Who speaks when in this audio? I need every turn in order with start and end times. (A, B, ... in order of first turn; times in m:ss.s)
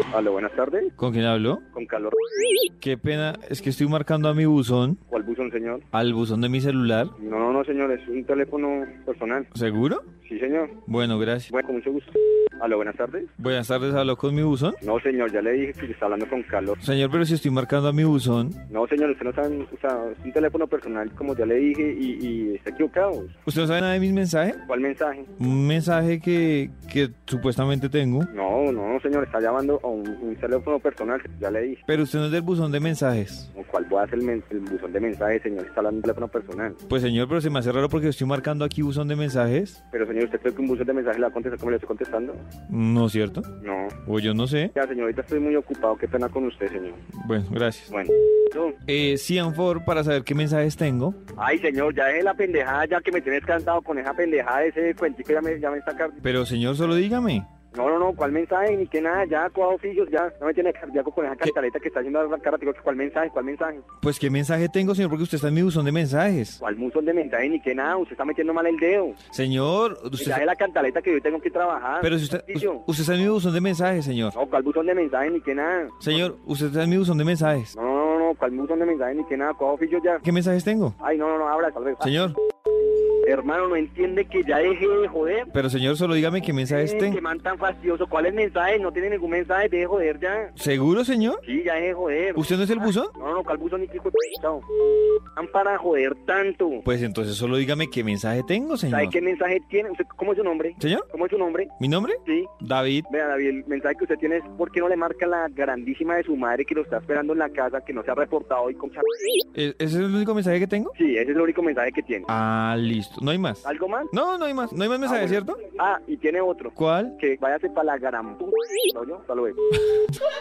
0:00.1-0:00.9 A
0:01.0-0:01.6 B
0:01.7-0:02.2 A
0:02.8-0:05.0 B
0:05.1-0:05.8 A
0:05.9-0:07.1 B
0:07.2-0:09.5 A
0:09.5-0:10.0 B
0:10.2-0:10.8 A
0:10.9-0:11.5 B
0:11.5-0:13.3 A
0:13.4-0:14.8 B
0:14.8-0:16.8 A
0:16.8-0:18.6 B
0:18.7-0:23.3 A
0:23.4-0:24.6 B
0:24.7-0:25.3 A
0:25.4-0:28.3 B
0:28.3-0:31.8 A
0:31.9-0:33.5 B
0:33.5-0:36.8 A
0:36.9-0:39.8 B
0:39.9-0:42.4 A
0:42.7-0:43.5 B
0:43.6-0:44.0 A
0:44.0-0:44.7 B
0:44.7-0:47.0 A
0:47.1-0:47.9 B
0:47.9-0:48.8 A
0:48.9-0:51.2 B
0:51.4-0:56.2 A
0:56.2-0:57.5 B
0:57.7-1:03.8 A
1:04.0-1:06.6 B
1:06.6-1:09.2 A
1:09.3-1:10.4 B
1:10.2-1:12.8 A
1:12.0-1:14.3 B
1:14.3-1:16.3 A
1:16.0-1:17.7 B
1:17.7-1:20.2 A
1:20.2-1:21.0 B
1:21.0-1:22.2 A
1:22.0-1:22.4 B
1:23.2-1:25.5 A
1:25.5-1:27.2 B
1:26.6-1:30.5 A
1:30.6-1:31.4 B
1:31.4-1:32.5 A
1:32.4-1:33.1 B
1:33.0-1:34.6 A
1:35.4-1:36.8 A
1:36.8-1:39.2 B
1:38.9-1:41.7 A
1:40.8-1:41.0 B
1:41.8-1:43.1 B
1:42.2-1:42.5 A
1:43.1-1:49.3 A
1:49.5-1:50.9 B
1:50.9-1:52.3 A
1:52.3-1:55.6 B
1:53.6-1:54.1 A
1:55.0-1:59.6 A
1:56.8-1:57.1 B